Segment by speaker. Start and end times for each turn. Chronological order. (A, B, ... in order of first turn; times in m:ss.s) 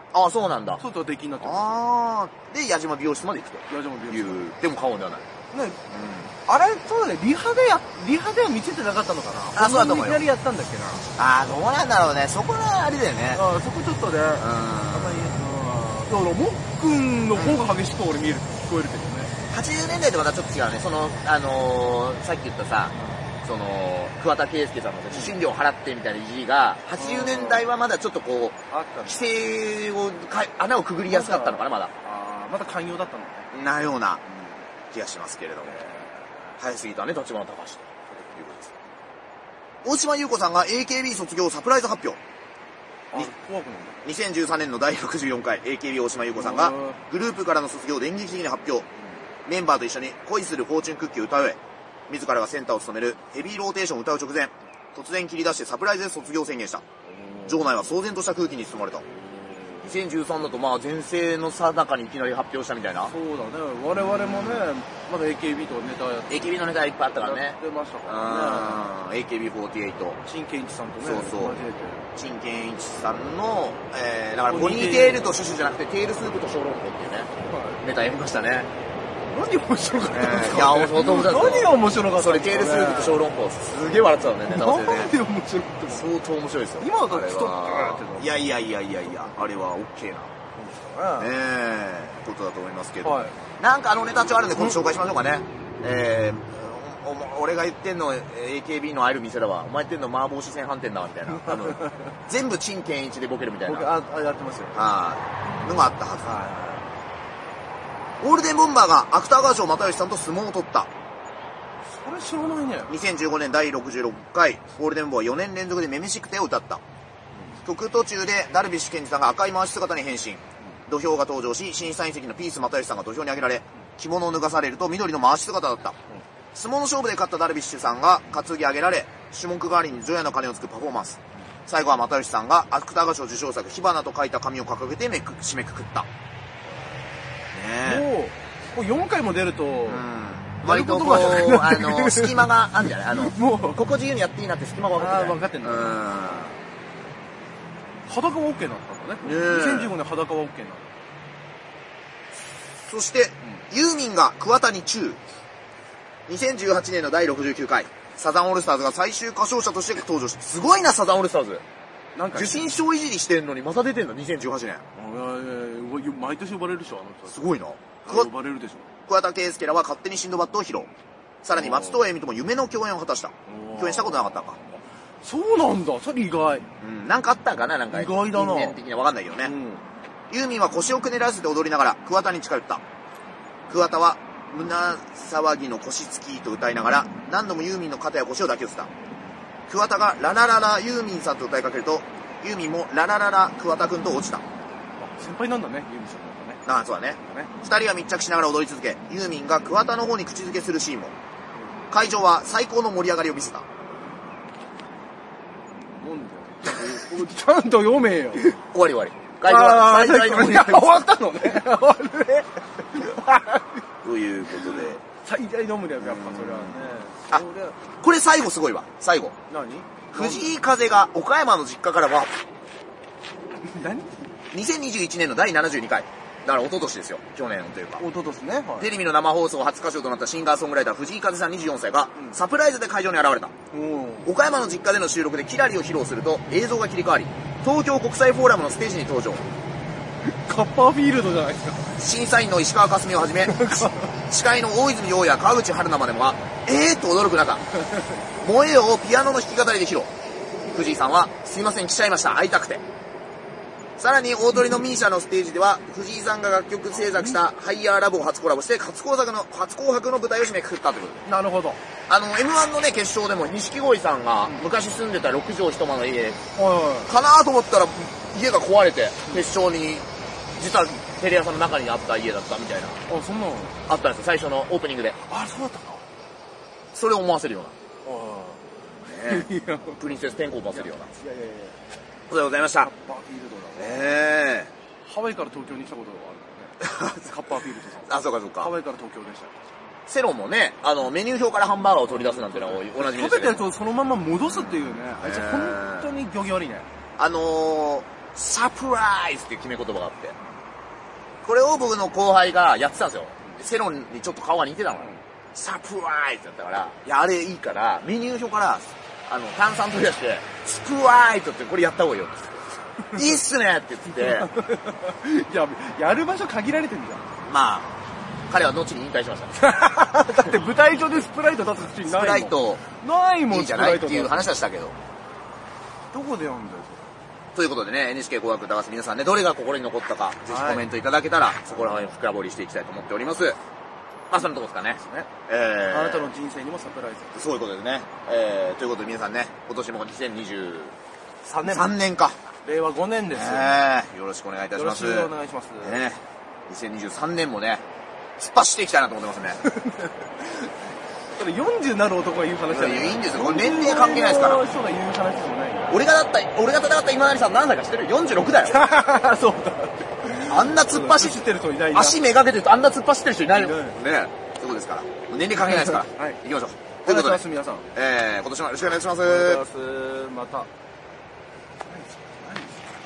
0:00.1-0:00.8 A
0:00.8-0:01.8 B
0:01.4-0:05.3 A
0:03.7-0:04.5 B
0:05.5-0:05.8 B
0:05.9-0:06.3 A
0:06.4-0:11.1 B
0:09.5-0:10.2 A
0:11.2-0:13.4 A
0:13.3-0:19.3 B
0:14.4-0:15.4 A
0:17.3-0:17.6 A
0:19.5-0:31.9 A
0:22.9-0:23.2 B
0:25.1-0:25.4 B
0:26.9-0:27.7 B
0:28.7-0:29.4 B
0:31.0-0:33.5 B
0:33.5-0:34.2 A
0:34.9-0:35.9 A
0:35.6-0:36.3 B
0:36.6-0:38.7 A
0:39.8-0:42.2 A
0:43.1-0:44.0 B
0:44.0-0:48.9 A
0:46.3-0:47.0 B
0:49.4-0:51.6 A
0:52.1-0:56.8 A
0:57.0-0:57.6 B
0:57.4-0:59.0 A
0:59.1-0:59.9 B
0:59.8-1:03.1 A
1:03.0-1:06.6 B
1:03.9-1:04.7 A
1:06.3-1:10.2 A
1:07.2-1:08.9 B
1:10.2-1:12.1 B
1:11.0-1:18.7 A
1:14.4-1:15.4 B
1:17.4-1:17.8 B
1:19.3-1:23.2 B
1:20.1-1:25.1 A
1:24.5-1:26.1 B
1:25.9-1:30.3 A
1:26.8-1:28.4 B
1:30.6-1:31.3 B
1:31.2-1:43.9 A
1:33.0-1:33.3 B
1:41.4-1:42.0 B
1:43.6-1:44.8 B
1:44.7-1:46.6 A
1:46.2-1:46.9 B
1:48.2-1:50.9 A
1:51.9-1:52.9 B
1:52.9-1:56.8 A
1:57.6-2:06.0 A
2:06.5-2:16.1 A
2:17.5-2:18.0 A
2:17.8-2:20.0 B
2:19.8-2:26.6 A
2:20.6-2:22.5 B
2:23.1-2:23.8 B
2:25.0-2:26.4 B
2:28.1-2:30.9 B
2:29.2-2:29.9 A
2:32.8-2:35.2 A
2:36.3-2:41.6 A
2:42.1-2:42.7 B
2:42.3-2:44.8 A
2:45.0-2:47.5 B
2:47.3-2:48.3 A
2:48.0-2:48.9 B
2:49.1-2:50.9 A
2:51.4-2:54.6 A
2:51.5-2:52.1 B
2:53.5-2:54.4 B
2:55.2-2:56.7 B
2:56.8-2:59.5 A
2:57.9-2:58.8 B
2:59.4-2:59.8 B
3:00.3-3:02.8 A
3:03.7-3:08.9 A
3:09.7-3:14.4 A
3:15.0-3:16.6 B
3:16.6-3:21.1 A
3:17.2-3:17.5 B
3:21.9-3:23.6 A
3:26.0-3:28.6 B
3:28.6-3:31.0 A
3:29.4-3:33.8 B
3:34.0-3:35.0 A
3:34.5-3:37.8 B
3:36.0-3:37.4 A
3:38.0-3:39.4 A
3:39.5-3:40.5 B
3:40.1-3:42.3 A
3:43.6-3:44.2 B
3:44.5-3:48.0 A
3:48.0-3:48.9 B
3:48.8-3:53.5 A
3:53.7-3:54.3 B
3:54.2-3:59.4 A
4:00.2-4:01.9 B
4:02.0-4:07.6 A
4:03.4-4:04.1 B
4:08.4-4:10.1 A
4:10.7-4:12.8 A
4:14.0-4:21.3 A
4:16.9-4:17.4 B
4:21.2-4:21.8 B
4:22.1-4:26.4 A
4:26.5-4:27.1 B
4:27.0-4:33.0 A
4:33.1-4:33.8 B
4:33.9-4:35.2 A
4:35.3-4:36.0 B
4:36.9-4:37.7 A
4:38.0-4:38.6 B
4:39.0-4:41.1 A
4:39.2-4:40.0 B
4:40.7-4:41.8 B
4:42.3-4:42.9 A
4:42.8-4:44.2 B
4:43.8-4:44.7 A
4:45.0-4:49.6 B
4:46.8-4:47.1 A
4:48.0-4:48.7 A
4:50.1-4:53.6 A
4:52.1-4:56.9 B
4:54.5-4:56.1 A
4:57.2-5:00.4 A
5:01.4-5:14.5 A
5:14.1-5:17.3 B
5:17.4-5:18.0 A
5:18.5-5:19.6 A
5:19.6-5:24.4 B
5:22.0-5:22.8 A
5:23.5-5:25.0 A
5:26.1-5:27.1 B
5:27.5-5:33.6 A
5:30.4-5:30.8 B
5:34.3-5:36.3 A
5:35.0-5:35.3 B
5:35.8-5:37.4 B
5:37.3-5:40.9 A
5:41.4-5:41.9 B
5:41.6-5:42.4 A
5:42.6-5:43.8 B
5:43.3-5:45.3 A
5:44.7-5:46.0 B
5:45.8-5:47.8 A
5:48.4-5:49.6 A
5:49.6-5:50.7 B
5:51.4-5:56.0 B
5:52.7-5:54.6 A
5:55.9-5:58.8 A
5:58.6-6:02.2 B
6:00.4-6:09.6 A
6:03.5-6:04.0 B
6:05.6-6:06.4 B
6:07.0-6:07.9 B
6:09.2-6:10.7 B
6:12.2-6:12.8 B